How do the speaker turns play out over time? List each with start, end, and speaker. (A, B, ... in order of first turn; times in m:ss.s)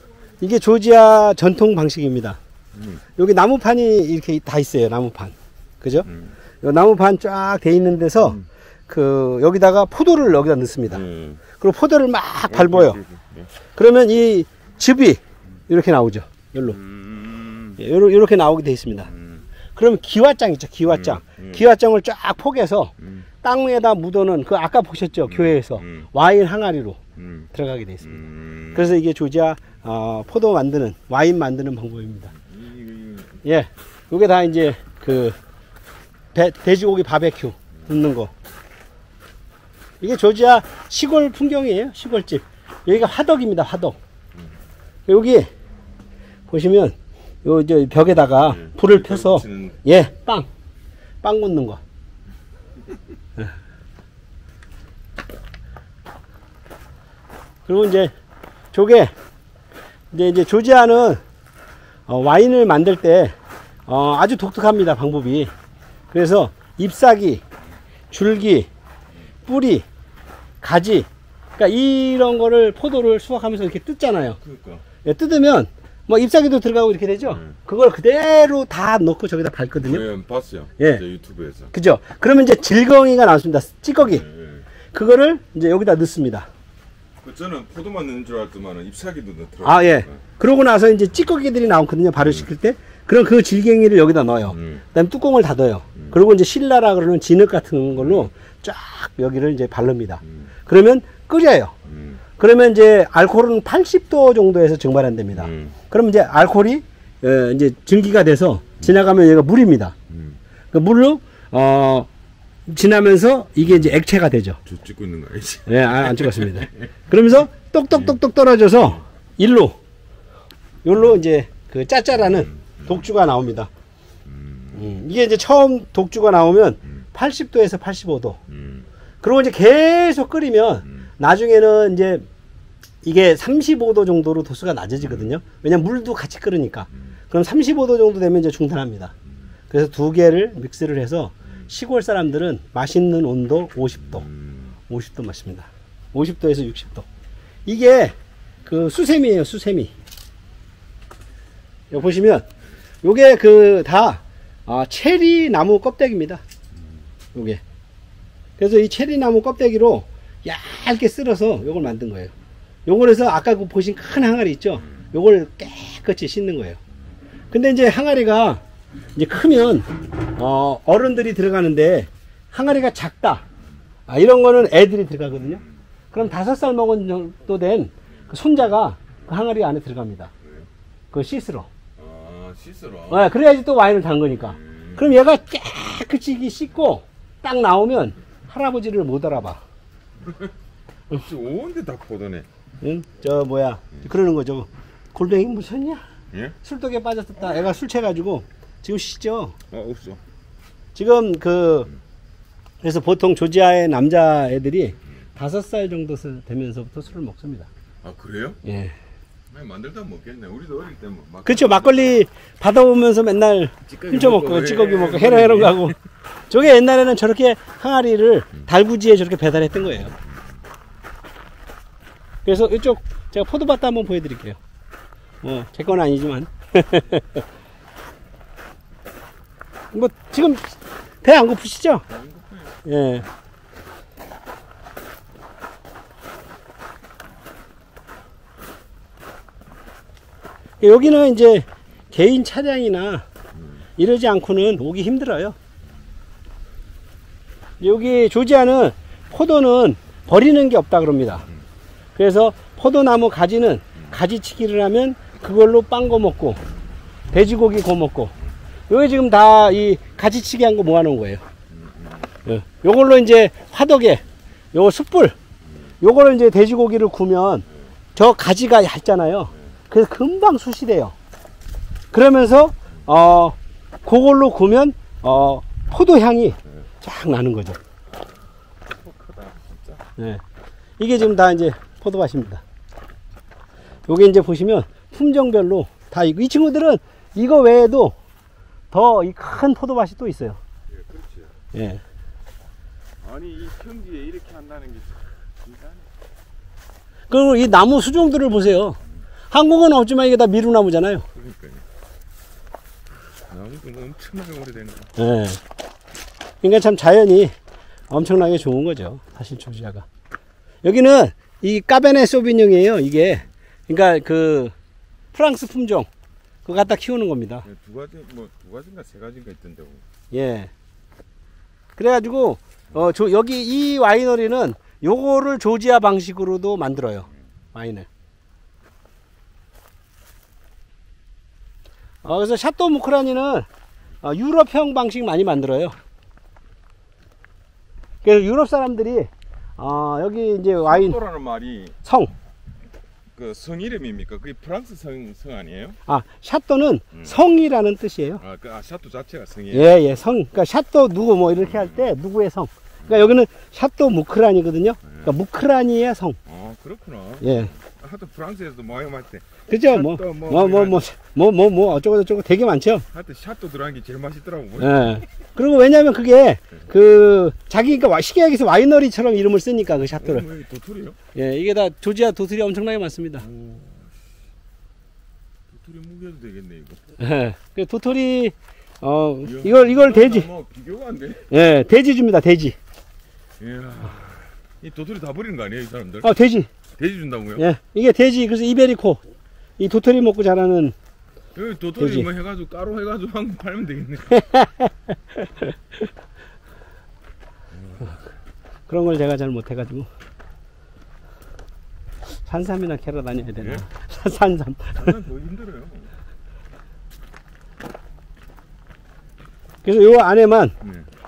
0:00.4-0:02.4 A
0:02.8-0:03.0 B
0:03.2-0:06.1 A
0:06.1-0:06.3 B
0:06.6-0:11.0 A
0:10.9-0:11.4 B
0:11.6-0:13.0 A
0:12.5-0:13.5 B
0:13.8-0:16.8 A
0:16.7-0:17.8 B
0:17.8-0:19.1 A
0:19.1-0:19.4 B
0:19.8-0:27.0 A
0:20.9-0:21.6 B
0:25.3-0:26.1 B
0:27.2-0:27.5 B
0:27.5-0:32.3 A
0:28.0-0:29.0 B
0:32.4-0:33.4 B
0:33.4-0:35.4 A
0:36.3-0:38.3 A
0:40.0-0:44.0 A
0:45.1-0:45.5 A
0:46.5-0:50.5 A
0:48.4-0:49.8 B
0:51.2-0:51.8 A
0:57.7-0:58.1 A
0:58.7-0:59.1 A
1:00.1-1:01.2 A
1:02.1-1:03.4 A
1:03.9-1:05.5 A
1:06.1-1:07.4 A
1:08.1-1:08.7 A
1:09.5-1:09.9 A
1:10.6-1:14.4 A
1:14.4-1:14.8 B
1:15.0-1:20.1 A
1:17.3-1:17.6 B
1:19.8-1:21.7 B
1:21.7-1:24.3 A
1:24.1-1:24.7 B
1:24.9-1:26.5 A
1:27.2-1:30.2 B
1:29.6-1:41.7 A
1:32.2-1:32.4 B
1:34.5-1:34.8 B
1:38.0-1:38.3 B
1:41.9-1:42.2 B
1:42.4-1:50.0 A
1:45.3-1:45.8 B
1:50.1-1:50.4 B
1:50.7-1:52.1 A
1:52.7-1:54.6 A
1:54.7-1:56.7 B
1:55.7-1:59.8 A
2:00.8-2:03.7 A
2:02.5-2:02.9 B
2:04.2-2:04.9 B
2:04.8-2:08.4 A
2:08.5-2:08.9 B
2:09.2-2:12.2 A
2:13.0-2:19.1 A
2:19.7-2:24.2 A
2:24.2-2:24.7 B
2:24.9-2:27.1 A
2:27.7-2:29.9 A
2:31.9-2:32.5 A
2:33.0-2:36.4 A
2:37.3-2:37.6 A
2:38.6-2:42.3 A
2:42.9-2:46.8 A
2:47.5-2:48.6 A
2:49.2-2:53.4 A
2:54.1-2:55.6 A
2:56.1-3:00.3 A
3:01.1-3:01.7 A
3:02.0-3:03.3 B
3:03.1-3:09.6 A
3:04.5-3:05.1 B
3:11.1-3:12.5 B
3:12.8-3:16.0 A
3:16.6-3:19.6 A
3:19.7-3:20.2 B
3:21.0-3:21.9 A
3:22.8-3:27.7 A
3:28.0-3:28.6 B
3:28.6-3:29.0 A
3:29.5-3:32.2 B
3:31.5-3:36.0 A
3:33.9-3:35.9 B
3:36.5-3:40.1 A
3:42.4-3:44.6 A
3:45.4-3:47.4 A
3:49.9-3:52.1 A
3:52.1-3:52.8 B
3:52.8-3:53.3 A
4:00.8-4:03.3 A
4:04.0-4:05.6 A
4:07.8-4:11.5 A
4:12.2-4:16.6 A
4:17.3-4:18.3 A
4:18.9-4:21.4 A
4:21.7-4:22.3 B
4:22.4-4:25.4 A
4:26.0-4:31.2 A
4:32.1-4:37.8 A
4:39.0-4:40.0 B
4:40.2-4:40.4 A
4:41.0-4:42.6 A
4:44.1-4:48.2 A
4:48.9-4:50.6 A
4:50.9-4:51.5 B
4:51.7-4:52.0 A
4:53.2-4:56.1 B
4:57.3-4:59.0 A
4:59.5-5:01.3 A
5:01.3-5:01.8 B
5:03.5-5:05.1 B
5:05.2-5:05.6 A
5:06.6-5:07.5 A
5:08.1-5:10.1 A
5:10.8-5:14.7 A
5:15.3-5:16.1 A
5:16.6-5:17.7 A
5:17.6-5:20.0 B
5:20.3-5:20.7 A
5:22.0-5:28.1 A
5:32.2-5:33.7 A
5:34.2-5:36.0 A
5:38.2-5:41.2 A
5:40.8-5:42.0 B
5:42.0-5:42.3 A
5:43.4-5:46.0 B
5:46.1-5:48.4 A
5:48.4-5:49.9 B
5:49.7-5:56.4 A
5:51.6-5:52.0 B
5:56.5-6:01.0 B
5:57.4-5:57.7 A
5:59.7-6:03.1 A
6:03.1-6:05.2 B
6:04.8-6:10.5 A
6:10.2-6:11.2 B
6:11.3-6:13.5 A
6:13.4-6:14.2 B
6:15.7-6:17.0 B
6:17.2-6:20.5 A
6:19.4-6:21.5 B
6:21.5-6:22.8 A
6:23.6-6:26.3 B
6:26.2-6:26.7 A
6:27.0-6:27.6 B
6:27.6-6:29.2 A
6:29.8-6:31.0 A
6:31.6-6:34.5 B
6:32.0-6:32.3 A
6:34.4-6:36.1 A
6:37.7-6:38.2 B
6:38.9-6:40.1 A
6:42.5-6:45.2 A
6:43.6-6:43.8 B
6:45.0-6:46.1 B
6:49.8-6:50.8 A
6:50.8-6:51.1 B